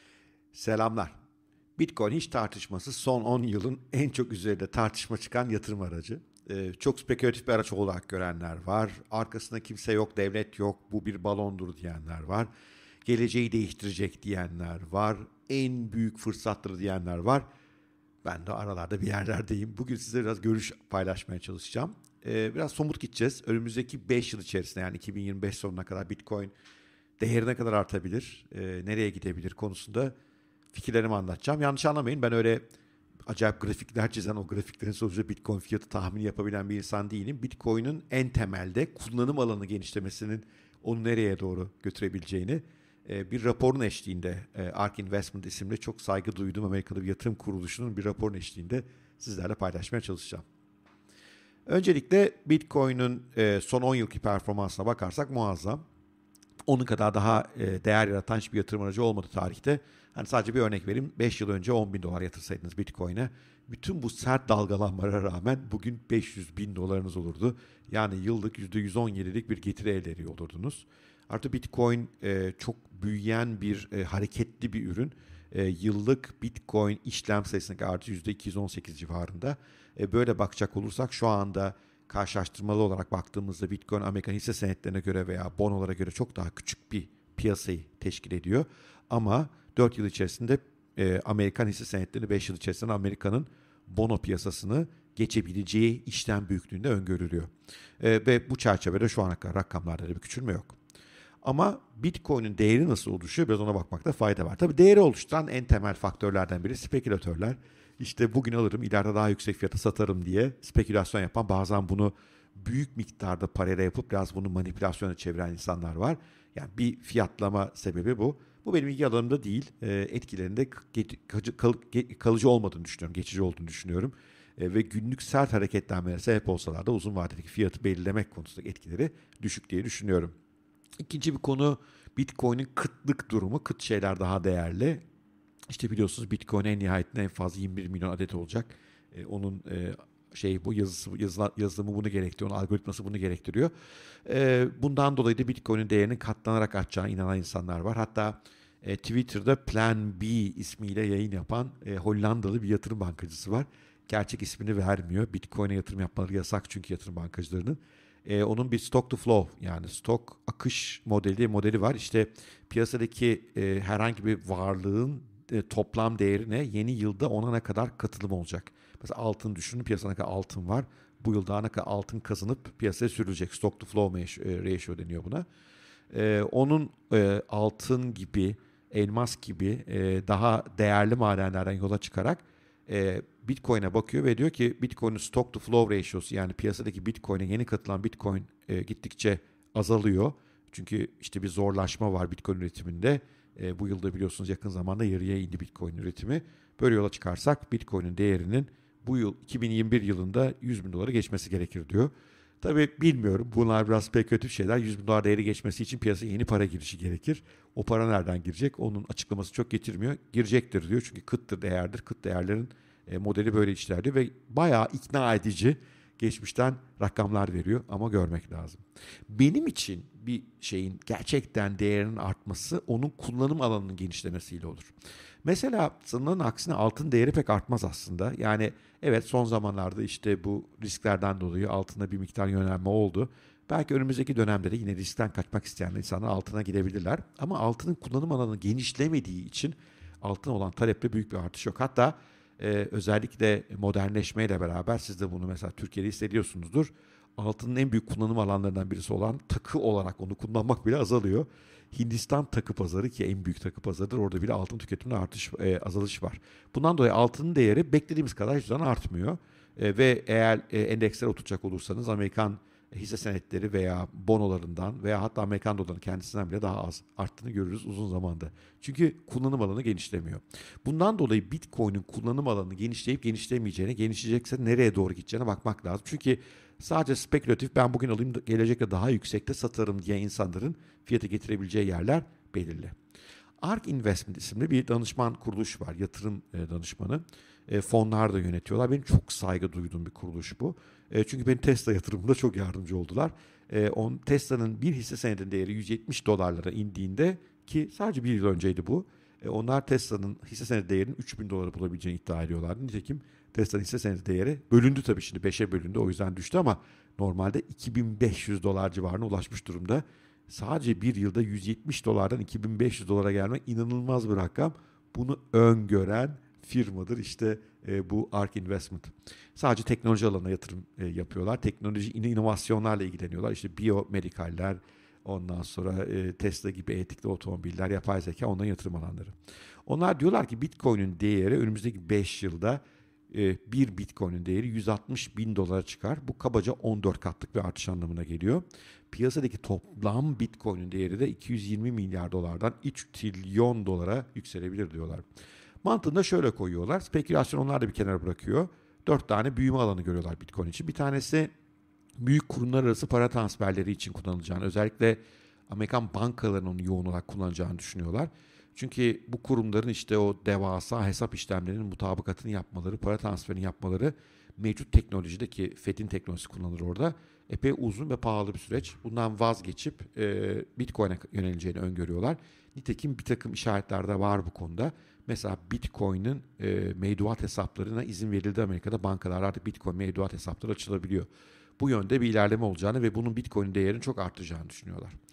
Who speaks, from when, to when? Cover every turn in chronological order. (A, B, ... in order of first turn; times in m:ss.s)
0:00.5-0:01.1 A
0:01.8-0:12.5 A
0:13.0-0:17.4 A
0:18.2-0:26.5 A
0:27.2-0:30.1 A
0:30.7-0:32.6 A
0:33.3-0:50.4 A
0:51.7-0:55.8 A
0:56.6-1:40.8 A
1:41.4-2:10.3 A
2:11.0-2:15.0 A
2:15.7-2:23.7 A
2:24.2-2:55.4 A
2:56.1-3:44.9 A
3:45.4-4:42.9 A
4:43.6-5:29.3 A
5:29.9-5:45.2 A
5:45.8-5:51.5 A
5:52.2-6:21.3 A
6:21.8-6:25.2 A